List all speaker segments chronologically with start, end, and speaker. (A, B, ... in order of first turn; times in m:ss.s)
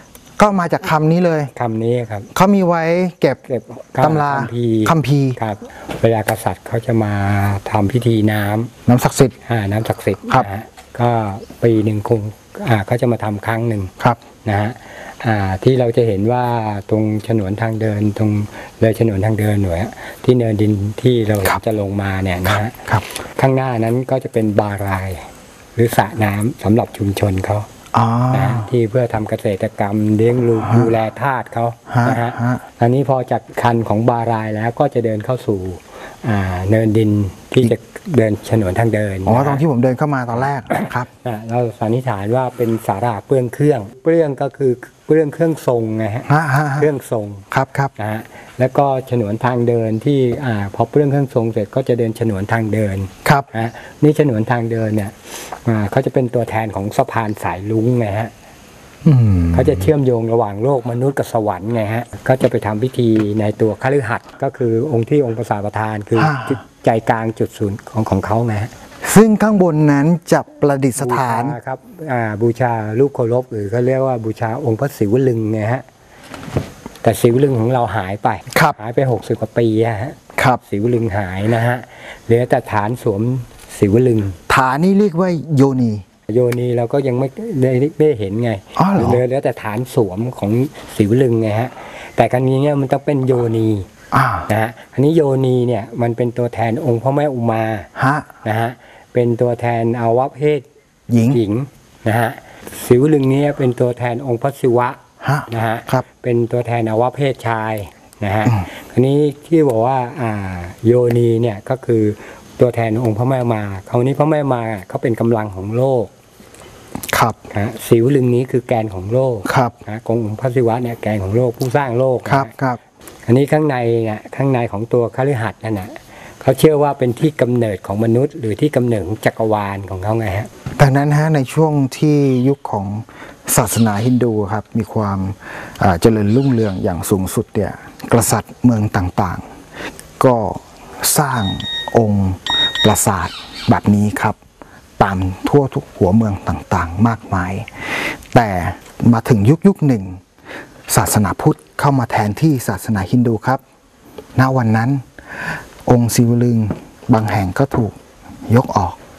0:00.4-0:01.5 A
0:01.5-0:02.3 B
0:02.4-0:03.4 A
0:03.5-0:08.7 B
0:04.0-0:05.4 A
0:08.9-0:09.4 A
0:09.4-0:13.9 B
0:14.4-0:27.7 B
0:22.5-0:23.1 A
0:27.9-0:28.7 A
0:28.3-0:39.6 B
0:30.6-0:30.9 A
0:31.9-0:32.6 A
0:39.3-0:41.1 A
0:40.4-0:47.4 B
0:46.3-0:46.9 A
0:47.5-0:47.9 A
0:48.0-0:58.3 B
0:59.0-0:59.9 A
0:59.5-1:08.7 B
1:06.2-1:06.6 A
1:09.0-1:11.6 A
1:11.0-1:15.8 B
1:17.0-1:24.4 B
1:18.5-1:18.8 A
1:20.4-1:20.6 A
1:24.5-1:26.0 A
1:26.3-1:33.9 B
1:28.8-1:29.2 A
1:34.1-1:34.5 A
1:34.5-1:37.9 B
1:38.0-1:38.3 A
1:38.4-1:40.6 B
1:41.1-1:41.4 A
1:41.3-1:56.1 B
1:45.2-1:46.0 A
1:57.1-1:57.4 A
1:57.5-2:02.5 B
1:59.5-1:59.8 A
2:02.3-2:02.8 A
2:03.3-2:10.5 B
2:10.8-2:19.4 A
2:20.2-2:24.4 A
2:25.0-2:30.2 A
2:30.9-2:33.6 A
2:34.4-2:38.0 A
2:38.5-2:39.0 A